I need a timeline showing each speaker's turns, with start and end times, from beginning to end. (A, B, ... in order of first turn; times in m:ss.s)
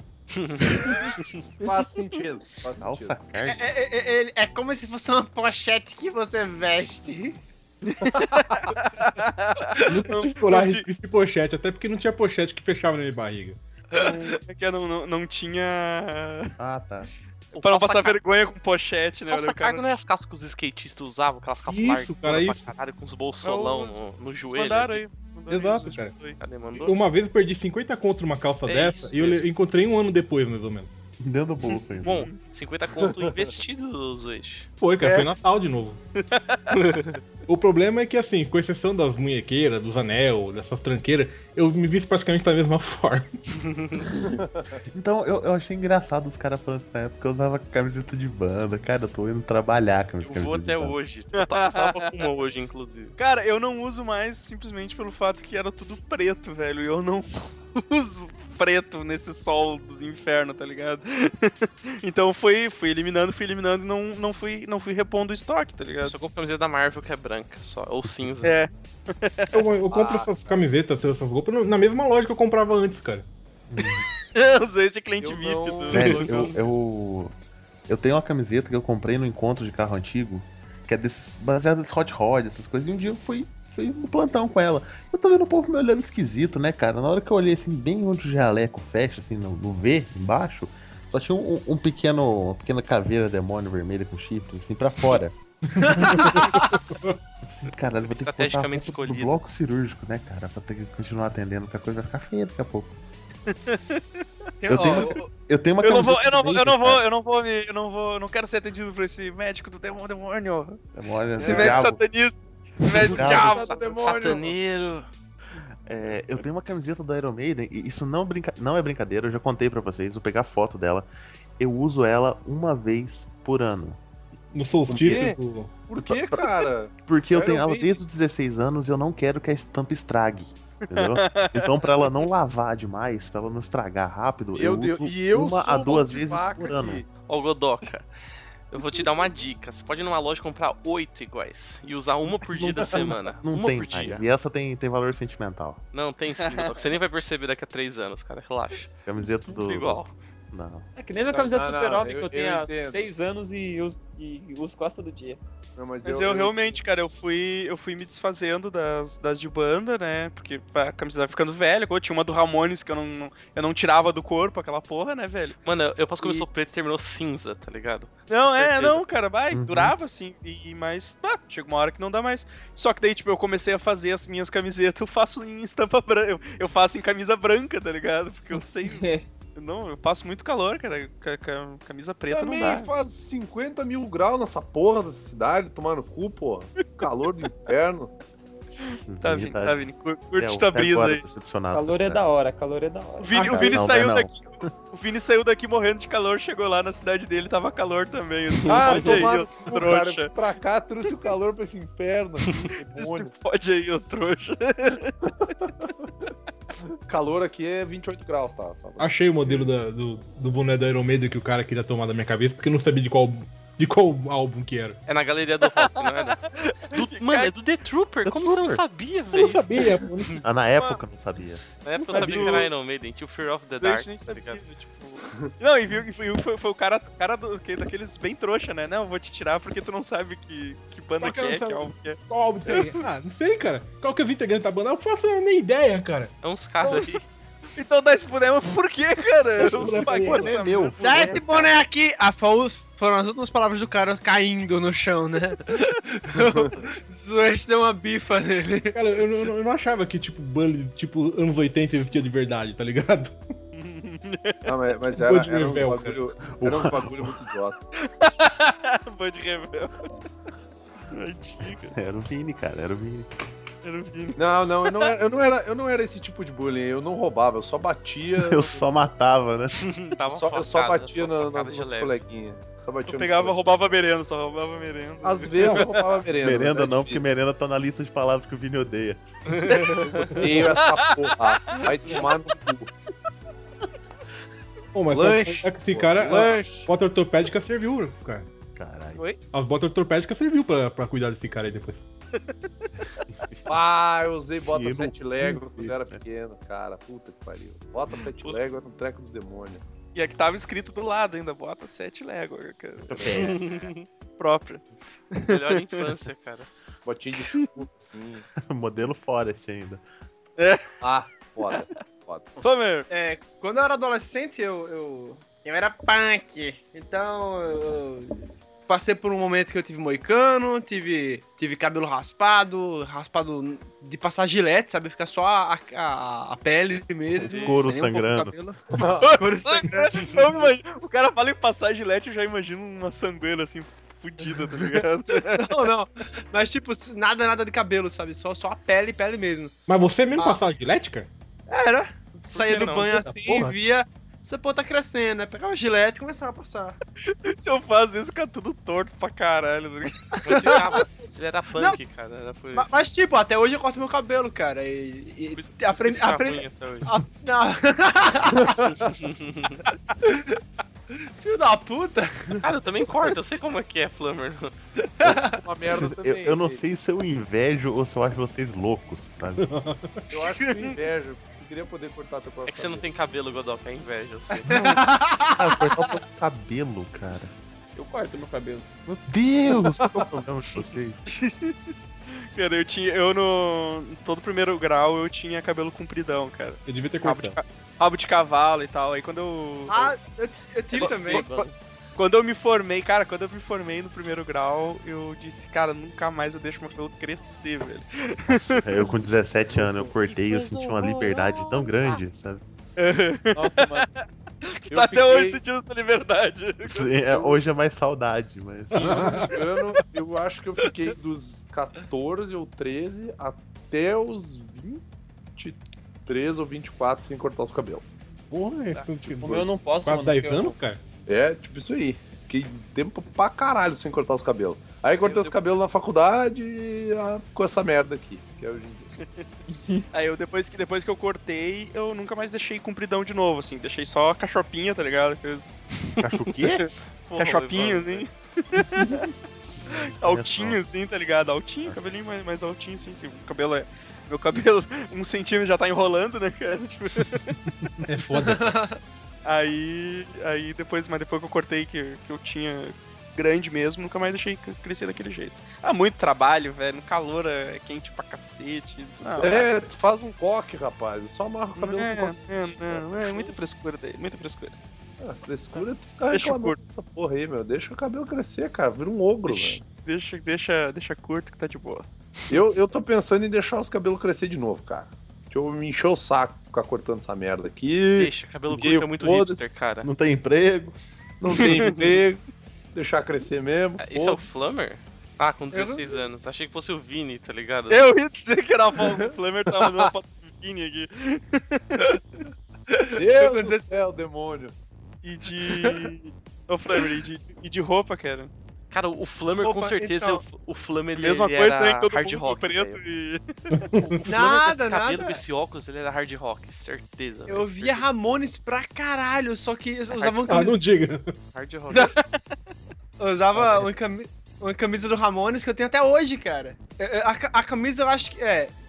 0:00.3-0:01.4 A
0:01.6-0:03.2 B
0:02.8-0:03.7 C
0:03.4-0:07.4 D
0:07.8-0:10.8 E
0:09.9-0:13.6 F
0:13.9-0:16.5 E
0:16.6-0:17.1 C
0:17.5-0:18.2 A
0:17.6-0:19.9 E
0:19.3-0:25.0 A
0:21.7-0:22.6 F
0:23.4-0:26.8 E
0:25.5-0:26.2 F
0:26.4-0:26.9 A
0:26.8-0:30.9 F
0:28.6-0:29.5 A
0:31.2-0:32.3 C
0:31.8-0:32.4 E
0:32.0-0:34.7 A
0:33.0-0:33.5 B
0:34.8-0:36.0 F
0:35.0-0:35.3 E
0:36.5-0:36.8 E
0:36.7-0:37.2 A
0:37.5-0:43.3 F
0:43.6-0:44.0 A
0:44.2-0:44.8 B
0:44.9-0:51.0 C
0:50.2-0:53.2 A
0:51.3-0:52.2 E
0:53.2-1:06.2 E
1:06.0-1:08.6 A
1:08.0-1:08.5 C
1:08.4-1:08.7 E
1:09.2-1:09.6 E
1:09.5-1:13.3 F
1:09.9-1:10.6 B
1:13.7-1:14.0 C
1:14.4-1:16.6 E
1:15.2-1:16.5 B
1:15.9-1:17.3 C
1:17.9-1:35.4 C
1:35.7-1:37.2 F
1:35.8-1:36.3 D
1:37.4-1:42.9 C
1:38.1-1:39.4 A
1:43.5-1:44.2 E
1:44.6-1:45.3 D
1:44.7-1:47.0 C
1:44.8-1:45.2 E
1:45.8-1:50.8 E
1:51.0-1:52.0 C
1:51.4-1:54.2 E
1:51.4-1:51.8 D
1:53.0-1:54.6 B
1:53.1-1:53.7 C
1:53.8-1:55.1 A
1:55.9-2:01.1 C
2:01.6-2:04.0 C
2:04.5-2:05.7 F
2:04.9-2:05.3 C
2:05.0-2:08.0 B
2:06.0-2:06.4 C
2:07.0-2:17.0 C
2:10.9-2:12.1 E
2:14.5-2:17.0 B
2:17.3-2:18.1 A
2:18.7-2:24.2 A
2:22.5-2:23.4 E
2:23.4-2:25.8 C
2:25.9-2:28.9 A
2:26.4-2:26.9 E
2:29.1-2:30.9 C
2:29.5-2:30.1 A
2:31.0-2:35.4 G
2:31.3-2:33.0 B
2:35.8-2:36.6 B
2:36.0-2:45.6 E
2:45.6-2:49.0 A
2:46.2-2:46.4 E
2:48.3-2:59.0 E
2:49.5-2:50.0 C
2:58.8-2:59.3 G
2:59.6-3:02.9 E
3:02.3-3:08.1 B
3:06.8-3:07.1 E
3:08.8-3:11.2 E
3:09.1-3:09.8 C
3:10.4-3:12.2 C
3:11.7-3:13.7 G
3:13.2-3:20.4 E
3:13.3-3:14.7 C
3:13.4-3:13.7 B
3:18.6-3:19.2 C
3:18.7-3:23.3 B
3:22.6-3:25.3 E
3:25.3-3:25.7 B
3:27.1-3:29.6 B
3:29.0-3:35.0 F
3:35.1-3:36.4 A
3:35.8-3:37.5 E
3:36.9-3:40.4 A
3:38.2-3:38.8 C
3:39.3-3:40.4 F
3:40.4-3:42.6 C
3:41.8-3:44.6 A
3:42.1-3:42.7 E
3:43.7-3:53.0 E
3:51.2-3:56.3 F
3:56.4-3:57.2 A
3:56.8-3:57.2 E
3:57.8-4:01.4 E
3:59.6-4:00.9 F
3:59.6-4:01.7 C
4:01.0-4:09.0 D
4:06.4-4:06.7 B
4:08.9-4:13.4 F
4:13.8-4:14.7 E
4:14.7-4:17.8 B
4:15.2-4:16.2 F
4:16.5-4:17.3 C
4:18.0-4:20.1 E
4:21.1-4:21.9 E
4:21.9-4:23.3 C
4:23.8-4:25.1 E
4:24.4-4:28.8 B
4:28.4-4:29.8 C
4:29.9-4:32.2 A
4:30.3-4:33.6 B
4:33.1-4:36.2 E
4:35.2-4:37.4 B
4:36.4-4:39.2 C
4:39.5-4:42.3 E
4:39.8-4:40.6 A
4:40.1-4:42.9 B
4:42.0-4:42.3 A
4:45.0-4:48.5 F
4:45.1-4:46.9 B
4:48.8-4:49.2 C
4:49.5-4:52.1 F
4:53.3-4:53.6 C
4:53.7-4:59.8 B
4:54.6-4:56.2 C
4:58.1-4:58.6 E
5:00.2-5:06.1 E
5:03.1-5:03.6 C
5:03.3-5:04.1 A
5:05.5-5:06.7 A
5:07.0-5:08.5 B
5:07.3-5:07.7 E
5:08.6-5:10.0 C
5:10.6-5:10.9 E
5:11.0-5:12.5 B
5:11.7-5:12.0 E
5:12.6-5:13.1 E
5:13.1-5:30.7 D
5:27.5-5:28.5 C
5:29.0-5:29.3 B
5:29.3-5:35.8 E
5:35.5-5:39.7 D
5:39.9-5:41.3 F
5:40.3-5:40.6 D
5:41.7-5:47.0 D
5:42.5-5:43.4 A
5:43.1-5:43.7 F
5:47.3-5:50.9 E
5:50.4-5:52.9 A
5:50.6-5:51.0 D
5:51.7-5:52.0 D
5:52.7-5:59.1 D
5:55.6-5:57.1 A
5:59.0-5:59.8 A
6:00.2-6:00.6 D
6:01.4-6:02.7 D
6:02.6-6:04.7 A
6:05.2-6:05.6 D
6:05.6-6:06.8 B
6:05.9-6:09.7 C
6:09.6-6:10.2 F
6:10.3-6:13.0 B
6:10.6-6:11.0 E
6:12.7-6:14.7 A
6:14.7-6:16.2 D
6:15.6-6:17.5 C
6:18.0-6:18.9 G
6:19.1-6:21.2 C
6:21.3-6:21.8 E
6:22.5-6:30.2 E
6:26.8-6:27.5 F
6:29.9-6:31.5 D
6:30.9-6:31.5 E
6:30.9-6:31.7 A
6:32.2-6:39.0 E
6:38.5-6:42.6 C
6:40.2-6:42.2 A
6:43.0-6:47.2 E
6:43.6-6:44.1 G
6:44.9-6:45.6 B
6:46.8-6:49.4 C
6:47.3-6:47.6 B
6:48.9-6:49.6 F
6:49.1-6:55.0 B
6:55.6-6:58.0 B
6:58.5-7:01.0 F
6:59.4-7:00.8 G
7:01.3-7:09.1 B
7:05.2-7:05.6 E
7:09.7-7:10.0 G
7:10.1-7:15.8 E
7:16.2-7:16.8 C
7:16.8-7:19.3 E
7:17.3-7:18.3 A
7:19.8-7:20.8 C
7:20.2-7:27.6 E
7:28.0-7:28.8 F
7:28.4-7:29.0 D
7:29.4-7:39.7 E
7:39.4-7:43.6 B
7:41.8-7:44.8 E
7:45.2-7:49.8 B
7:45.8-7:46.8 E
7:49.5-7:52.6 E
7:52.5-7:59.7 B
7:58.2-8:00.1 A
8:00.0-8:01.0 C
8:01.4-8:02.4 B
8:01.5-8:02.1 E
8:03.0-8:04.4 B
8:04.0-8:08.0 A
8:05.7-8:06.2 D
8:07.9-8:12.2 E
8:12.9-8:14.0 D
8:13.2-8:14.7 B
8:15.2-8:18.5 E
8:15.7-8:16.0 D
8:18.9-8:23.0 A
8:19.9-8:20.4 D
8:21.2-8:23.9 E
8:23.7-8:24.3 F
8:24.1-8:28.1 A
8:24.2-8:25.4 D
8:27.5-8:30.8 D
8:30.2-8:30.7 A
8:30.5-8:31.4 F
8:31.5-8:32.1 A
8:33.2-8:38.7 D
8:33.6-8:33.9 F